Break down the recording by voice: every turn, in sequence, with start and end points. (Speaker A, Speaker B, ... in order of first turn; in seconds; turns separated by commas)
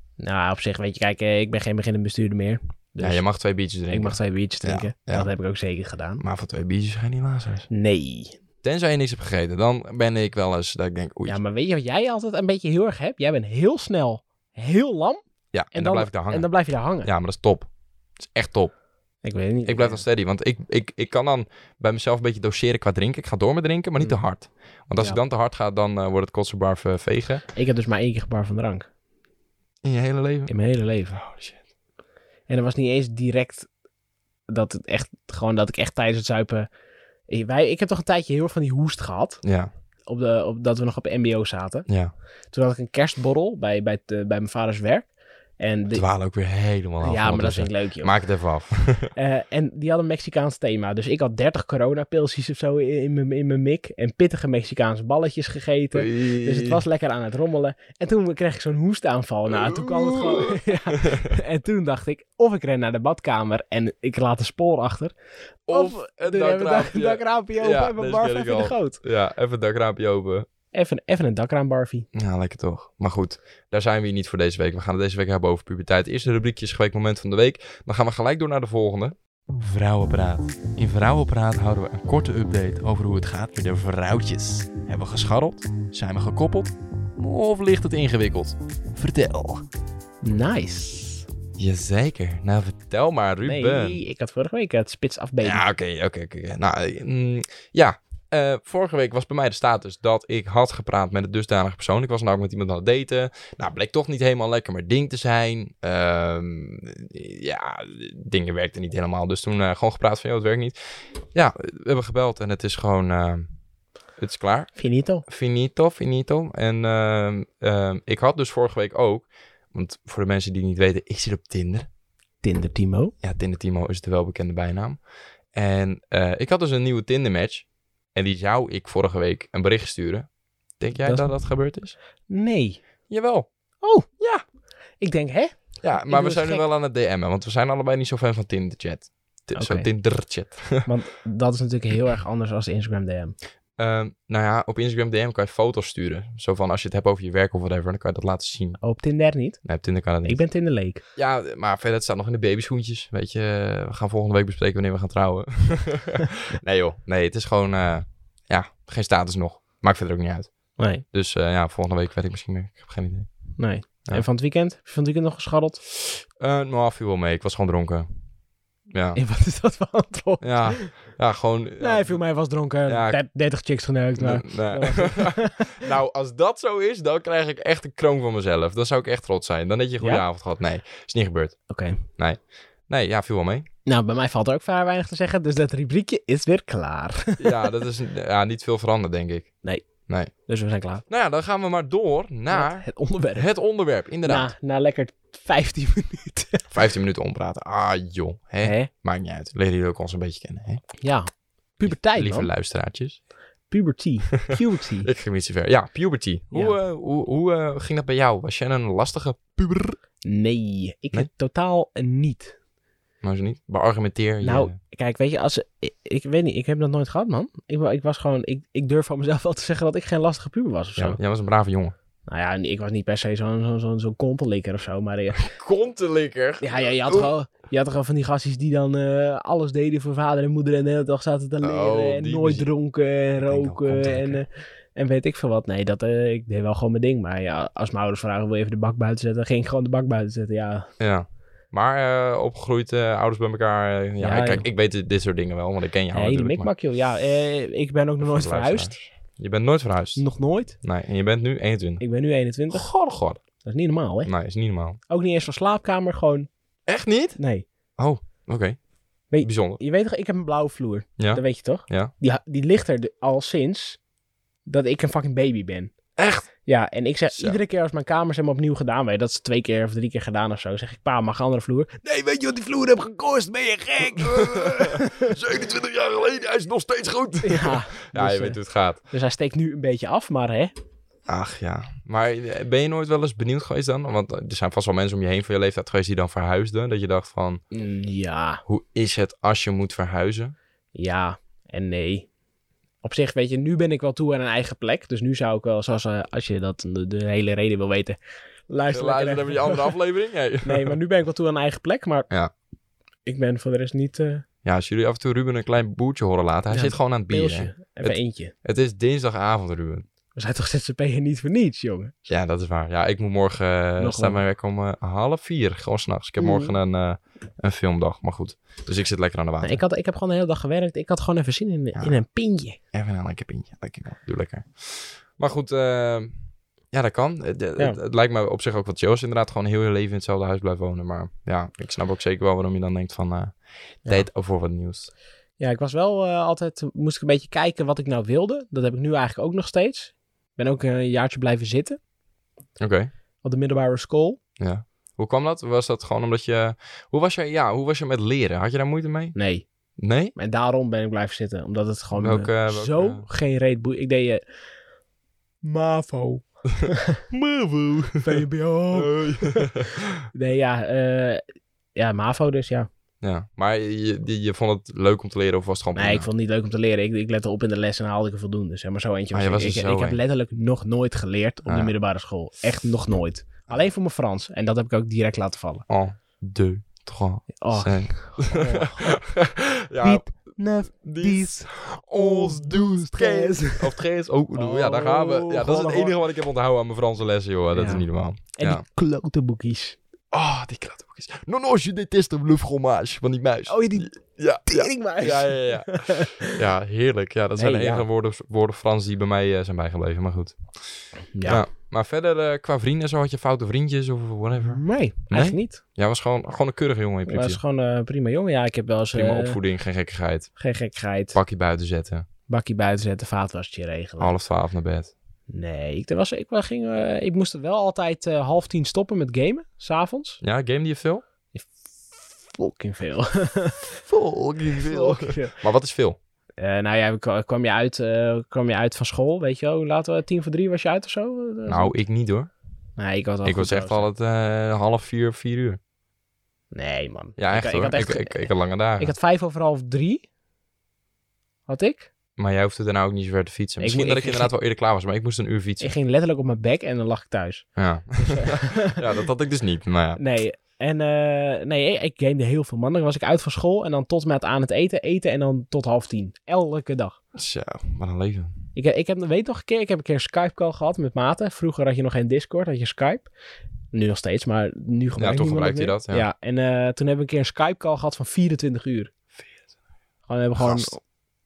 Speaker A: 0.2-3.2, Speaker B: 3.0-5.3, Speaker A: 3.9-6.2, Speaker B: 6.2-7.7, Speaker A: 7.7-8.4, Speaker B: 8.6-11.4, Speaker A: 11.2-15.2, Speaker B: 15.5-16.5, Speaker A: 15.7-17.1, Speaker B: 17.0-17.7, Speaker B: 18.3-18.7, Speaker A: 19.2-20.1, Speaker B: 19.7-27.4, Speaker A: 27.5-28.9, Speaker B: 29.8-30.5, Speaker A: 30.5-31.2, Speaker B: 31.1-31.6, Speaker A: 32.5-33.7, Speaker A: 34.5-36.7, Speaker A: 37.3-39.4, Speaker B: 39.4-39.7, Speaker A: 40.1-41.9, Speaker B: 41.9-42.1, Speaker A: 42.5-46.1, Speaker B: 45.9-49.1, Speaker A: 47.0-48.2, Speaker A: 49.1-65.1, Speaker B: 55.9-56.8, Speaker B: 59.5-61.4, Speaker B: 65.7-70.5, Speaker A: 65.7-69.0, Speaker A: 70.7-72.1, Speaker B: 72.1-89.7, Speaker A: 90.2-91.3, Speaker B: 91.6-94.0, Speaker A: 93.5-95.7, Speaker B: 95.4-110.8, Speaker B: 111.3-113.5, Speaker B: 114.2-114.7, Speaker A: 114.8-115.2, Speaker B: 115.3-121.9, Speaker A: 122.4-123.1, Speaker B: 123.2-125.0, Speaker B: 125.5-131.9, Speaker A: 131.0-131.3, Speaker A: 132.3-132.8, Speaker B: 133.1-133.5, Speaker A: 133.8-134.1, Speaker B: 134.2-134.4, Speaker A: 135.0-136.6, Speaker B: 135.8-140.9, Speaker A: 139.6-139.9, Speaker A: 140.9-143.3, Speaker B: 143.8-148.8, Speaker A: 148.8-149.6, Speaker B: 149.7-150.4, Speaker A: 150.2-151.0, Speaker B: 151.2-160.5, Speaker A: 160.8-161.0, Speaker B: 161.1-163.3, Speaker A: 163.6-165.8, Speaker B: 166.0-168.1, Speaker B: 168.9-169.2, Speaker A: 169.2-170.9, Speaker B: 170.4-172.2, Speaker A: 171.8-175.9, Speaker B: 172.9-173.2, Speaker B: 174.2-181.6, Speaker A: 181.7-182.0, Speaker B: 182.2-183.7, Speaker A: 183.9-187.8, Speaker B: 187.4-189.5, Speaker A: 190.5-191.1, Speaker B: 191.1-194.5, Speaker A: 192.5-193.5, Speaker A: 194.2-196.7, Speaker B: 196.7-200.8, Speaker A: 198.6-198.9, Speaker A: 201.0-202.5, Speaker B: 201.8-203.2, Speaker A: 203.7-205.1, Speaker B: 204.4-210.0, Speaker A: 206.5-206.8, Speaker A: 210.2-212.6, Speaker B: 213.2-214.8, Speaker A: 214.4-221.2, Speaker B: 221.0-221.9, Speaker A: 222.3-225.5, Speaker B: 225.4-227.3, Speaker A: 226.6-240.9, Speaker B: 231.6-232.7, Speaker B: 233.4-234.4, Speaker B: 241.0-246.7, Speaker A: 244.2-244.7, Speaker A: 246.1-249.0, Speaker B: 248.2-250.2, Speaker A: 250.2-250.8, Speaker B: 250.8-252.0, Speaker A: 252.0-252.9, Speaker B: 252.7-253.4, Speaker A: 253.6-254.3, Speaker B: 254.2-255.0, Speaker A: 255.1-256.5, Speaker B: 256.9-257.4, Speaker A: 257.4-257.6, Speaker B: 258.0-258.8, Speaker A: 259.3-264.0, Speaker B: 259.4-259.8, Speaker B: 261.2-262.1, Speaker A: 264.7-265.9, Speaker B: 266.2-266.5, Speaker A: 266.7-275.4, Speaker B: 267.3-267.6, Speaker B: 274.0-279.0, Speaker A: 277.4-278.6, Speaker A: 279.1-280.7, Speaker B: 281.3-287.6, Speaker A: 287.7-288.6, Speaker B: 288.7-290.5, Speaker A: 290.9-292.3, Speaker A: 293.0-300.0, Speaker B: 298.9-301.0, Speaker A: 300.6-302.3, Speaker A: 303.2-304.4, Speaker B: 304.6-310.1, Speaker A: 306.7-308.5, Speaker A: 310.4-312.1, Speaker B: 312.3-319.8, Speaker A: 314.0-314.4, Speaker A: 316.4-316.8, Speaker A: 319.6-322.8, Speaker B: 322.9-326.3, Speaker B: 326.9-335.1, Speaker A: 335.6-342.0, Speaker B: 342.8-343.1, Speaker A: 343.4-344.4, Speaker B: 344.6-349.4, Speaker A: 349.4-349.6, Speaker B: 350.0-350.4, Speaker A: 350.4-354.4, Speaker B: 352.1-353.3, Speaker A: 355.6-357.2, Speaker B: 356.8-360.2, Speaker A: 358.2-359.7, Speaker A: 360.3-361.4, Speaker A: 361.9-362.9, Speaker B: 363.2-366.3, Speaker A: 365.9-375.9, Speaker B: 369.3-370.2, Speaker B: 371.7-371.9, Speaker B: 375.9-388.8, Speaker A: 377.6-379.2, Speaker A: 380.0-384.0, Speaker A: 384.6-386.2, Speaker A: 387.7-390.0, Speaker B: 390.3-400.6, Speaker A: 393.7-394.1, Speaker A: 394.7-396.5, Speaker A: 397.6-398.1, Speaker A: 401.3-401.6, Speaker B: 401.4-407.6, Speaker A: 404.6-405.8, Speaker A: 407.3-409.6, Speaker B: 409.1-410.5, Speaker A: 410.6-411.4, Speaker B: 411.3-412.3, Speaker A: 412.5-414.3, Speaker B: 414.2-415.1, Speaker A: 415.5-420.4, Speaker B: 420.4-421.2, Speaker A: 422.4-424.0, Speaker B: 424.1-426.2, Speaker A: 424.7-425.6, Speaker A: 426.6-431.9, Speaker B: 431.7-432.5, Speaker A: 433.0-434.1, Speaker B: 433.4-435.8, Speaker A: 436.7-440.2, Speaker B: 437.4-439.1, Speaker A: 441.7-442.1, Speaker B: 442.4-445.9, Speaker A: 443.8-444.5, Speaker A: 445.8-449.0, Speaker B: 447.8-450.2, Speaker A: 450.2-457.2, Speaker B: 457.4-458.6, Speaker A: 458.8-463.3, Speaker A: 463.9-469.1, Speaker B: 465.2-466.3, Speaker A: 470.3-471.0, Speaker B: 470.6-471.0